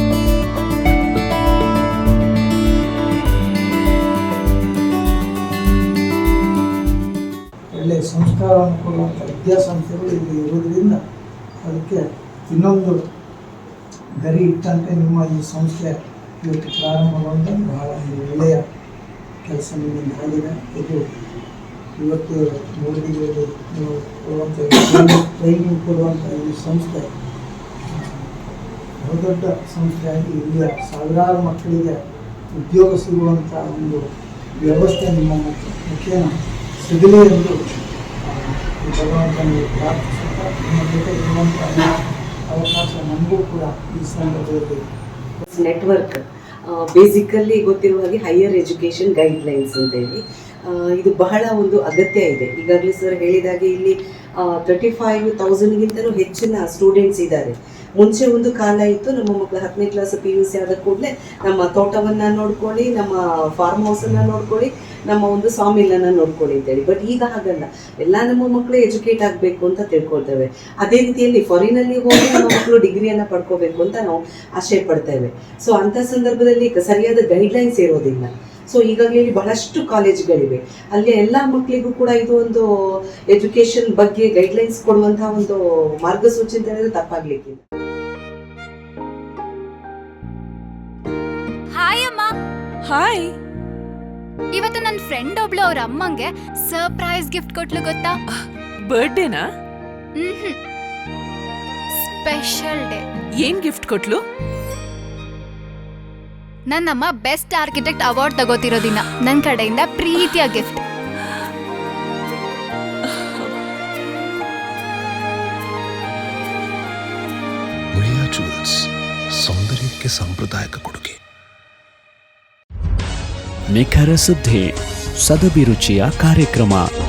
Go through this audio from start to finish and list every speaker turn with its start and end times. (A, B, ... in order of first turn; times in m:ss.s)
0:07.7-0:11.0 A
0:11.6-0:13.0 A
0:14.2-0:18.6 A
0:19.4-0:21.0 A
0:22.0-0:27.1 A
0:27.9-0:28.3 A
0:29.0-0:32.0 A
0:32.5-0:34.0 A
0:34.6-0:37.6 A
0:38.2-0:41.9 A
0:42.5-0:44.8 A
0:45.5-1:22.6 B
1:23.3-1:27.6 B
1:31.7-1:32.3 C
1:32.8-1:33.3 D
1:34.5-1:38.2 C
1:38.4-1:39.5 D
1:40.2-1:40.6 C
1:42.0-1:43.0 C
1:43.3-1:44.2 D
1:46.7-1:50.8 C
1:57.9-2:01.2 E
2:03.7-2:06.8 F